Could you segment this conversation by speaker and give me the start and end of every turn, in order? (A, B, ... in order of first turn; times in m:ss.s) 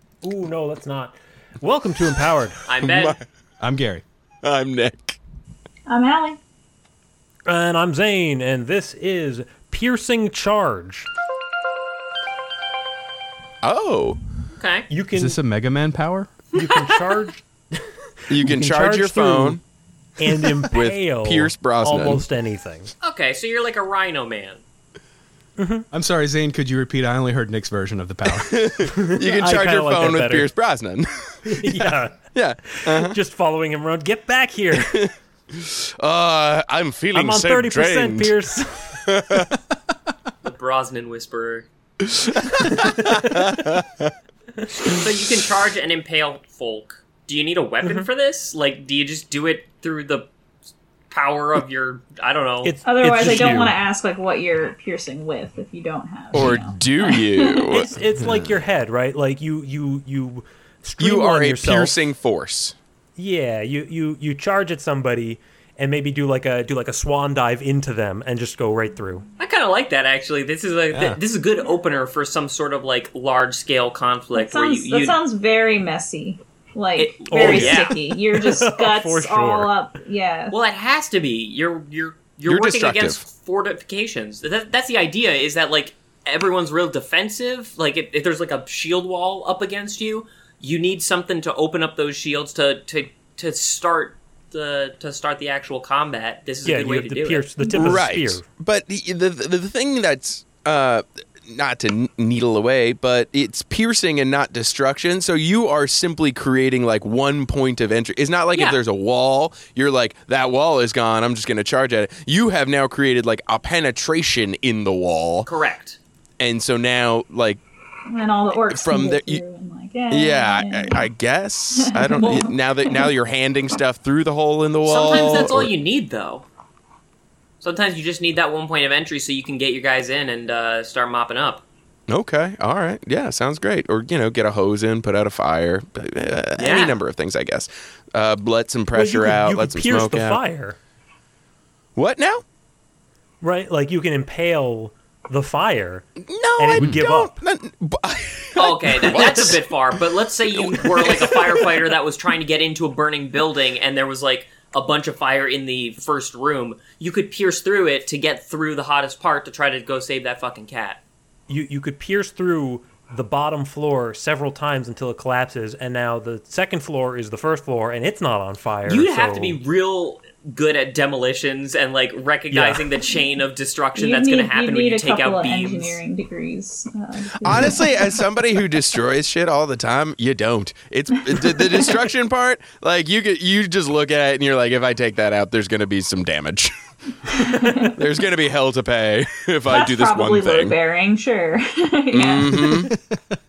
0:00.2-0:02.6 A
0:02.6-0:03.2 B
0:02.8-0:03.2 C
0:03.6-0:04.0 D
0:04.4-0:05.2 C
0:05.9-0:06.4 E
0:07.5-0:11.1 A
0:13.6-0:14.2 C
0:14.6-0:14.9 B
0:14.9-0:15.4 A
0:15.1-0:16.3 D
0:16.5-0:19.6 A
0:16.6-0:17.1 B
0:18.3-0:19.6 C
0:20.2-0:22.9 A
0:20.6-0:22.2 C
0:23.0-0:24.6 B
0:25.6-0:25.8 A
0:25.9-0:28.5 D
0:28.4-0:33.2 C
0:28.9-0:30.5 A
0:31.5-0:32.2 A
0:32.7-0:35.1 A
0:34.8-0:38.4 C
0:37.1-0:39.1 A
0:39.1-0:39.5 C
0:40.4-0:41.7 B
0:42.1-0:43.8 C
0:42.7-0:43.4 A
0:44.9-0:50.3 B
0:51.1-0:52.8 B
0:52.6-0:53.8 A
0:52.8-0:57.8 E
0:56.3-0:57.9 C
0:57.7-1:02.0 A
1:01.0-1:02.8 C
1:03.2-1:09.2 A
1:09.4-1:15.2 B
1:10.9-1:11.2 D
1:14.3-1:20.6 E
1:17.0-1:18.0 B
1:17.3-1:19.8 A
1:20.5-1:37.5 B
1:22.5-1:23.2 C
1:36.6-1:38.5 A
1:37.6-1:37.9 E
1:37.7-1:55.5 C
1:55.4-1:56.0 B
1:56.4-1:57.6 C
1:58.1-2:01.1 E
1:58.7-1:59.4 C
2:00.1-2:05.7 C
2:01.8-2:03.1 E
2:04.8-2:06.5 B
2:07.6-2:11.6 B
2:12.1-2:20.4 C
2:16.6-2:17.0 B
2:18.9-2:20.8 A
2:22.0-2:22.4 C
2:23.4-2:26.0 A
2:26.2-2:29.6 C
2:26.6-2:27.4 A
2:28.6-2:41.0 B
2:30.5-2:31.8 C
2:41.5-2:49.6 A
2:48.8-2:56.0 B
2:52.5-2:52.9 A
2:53.0-2:53.4 E
2:54.0-2:58.2 E
2:57.4-3:06.7 C
3:01.4-3:01.9 E
3:07.3-3:07.9 E
3:08.0-3:10.8 C
3:09.7-3:12.8 E
3:12.1-3:12.9 C